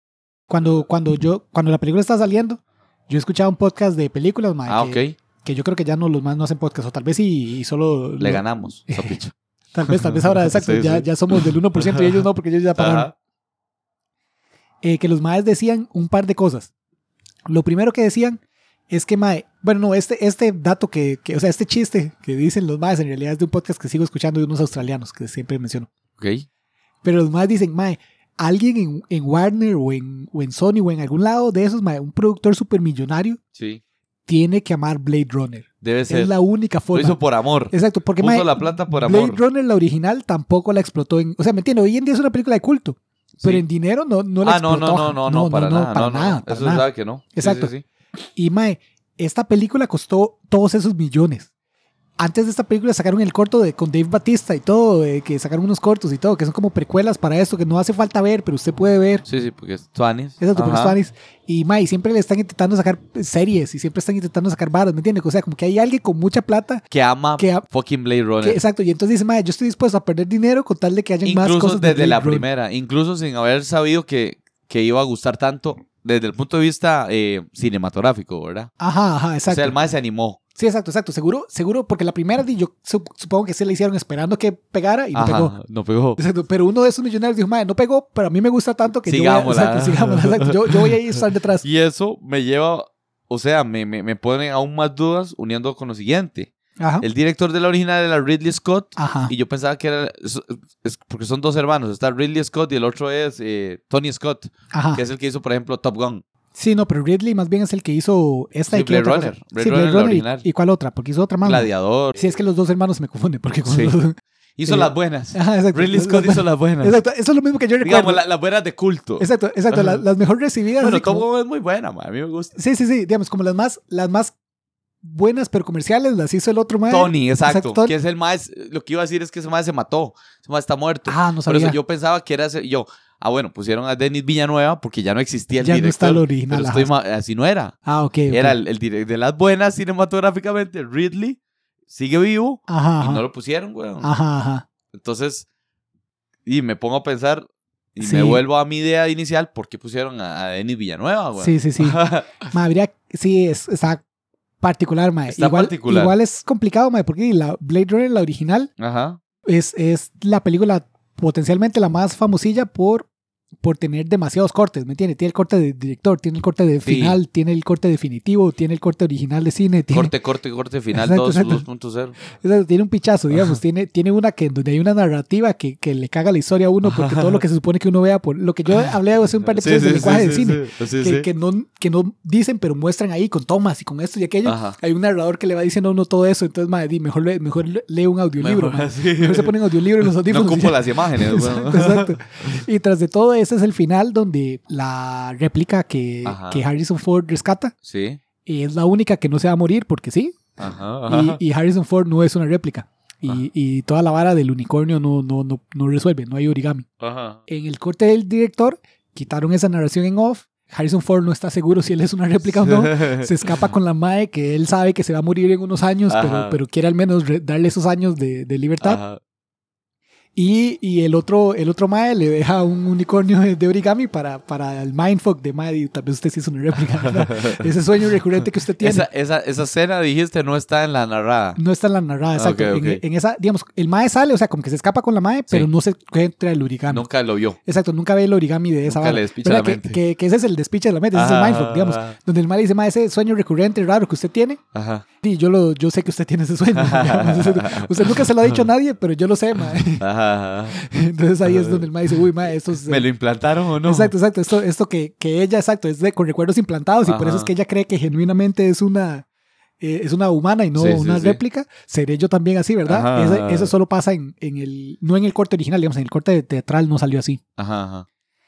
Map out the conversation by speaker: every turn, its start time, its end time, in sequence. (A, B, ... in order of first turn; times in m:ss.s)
0:00.5-0:09.2 A
0:04.7-0:05.2 B
0:08.2-0:09.3 B
0:09.7-0:13.1 A
0:09.9-0:12.2 B
0:12.8-0:13.1 B
0:14.8-0:16.7 A
0:17.5-0:25.9 A
0:26.2-0:26.4 B
0:27.0-0:33.4 A
0:33.5-0:33.8 B
0:34.3-0:37.2 A
0:35.8-0:36.3 B
0:36.9-0:39.4 B
0:37.7-0:47.7 A
0:44.4-0:47.8 B
0:48.4-0:51.5 A
0:52.2-0:59.2 A
0:59.2-1:01.0 B
1:00.4-1:06.8 A
1:06.9-1:08.6 B
1:07.4-1:07.6 A
1:08.4-1:12.4 A
1:11.2-1:18.7 B
1:18.8-1:19.7 A
1:19.5-1:20.4 B
1:20.6-1:25.5 A
1:25.1-1:26.2 B
1:26.2-1:31.6 A
1:29.0-1:36.5 B
1:36.8-1:37.0 A
1:37.0-1:46.2 B
1:39.0-1:39.3 A
1:44.7-1:45.0 A
1:46.5-1:54.2 A
1:48.7-1:50.4 B
1:51.4-1:52.2 B
1:53.6-1:54.0 B
1:54.6-1:57.0 B
1:54.7-1:58.2 A
1:57.8-2:00.0 B
1:59.2-2:01.2 A
2:00.8-2:02.5 B
2:02.5-2:04.3 A
2:05.0-2:07.9 A
2:06.9-2:17.7 B
2:11.1-2:11.8 A
2:15.6-2:16.9 A
2:17.8-2:18.6 A
2:18.3-2:21.4 B
2:21.9-2:24.1 B
2:22.7-2:23.2 A
2:24.0-2:24.6 A
2:24.9-2:25.4 B
2:26.4-2:32.4 B
2:28.0-2:28.4 A
2:31.4-2:34.0 A
2:34.6-2:38.7 A
2:35.3-2:36.1 B
2:38.8-2:39.2 B
2:39.4-2:43.1 A
2:43.6-2:50.1 A
2:46.8-2:47.2 B
2:49.9-2:52.2 B
2:50.9-2:51.6 A
2:52.2-3:17.7 A
2:56.8-2:57.4 B
2:59.5-3:01.3 B
3:04.4-3:04.8 B
3:08.4-3:12.6 B
3:16.2-3:16.6 B
3:17.8-3:18.2 B
3:18.4-3:20.5 A
3:20.6-3:21.4 B
3:21.1-3:26.8 A
3:27.0-3:27.4 B
3:27.5-3:39.0 A
3:32.5-3:33.7 B
3:36.1-3:36.6 B
3:38.8-3:39.2 B
3:40.4-3:49.0 A
3:47.0-3:47.7 B
3:48.8-3:51.6 B
3:51.6-3:57.0 A
3:52.3-3:53.0 B
3:56.9-3:57.6 B
3:57.6-4:04.6 A
3:58.8-4:00.0 B
4:01.1-4:02.2 B
4:04.7-4:05.0 B
4:05.2-4:10.0 A
4:06.7-4:08.6 B
4:10.0-4:10.8 B
4:10.7-4:13.0 A
4:11.4-4:12.2 B
4:12.8-4:14.1 B
4:13.8-4:19.2 A
4:17.0-4:17.5 B
4:19.8-4:27.4 A
4:20.7-4:21.4 B
4:22.8-4:23.7 B
4:27.6-4:28.0 B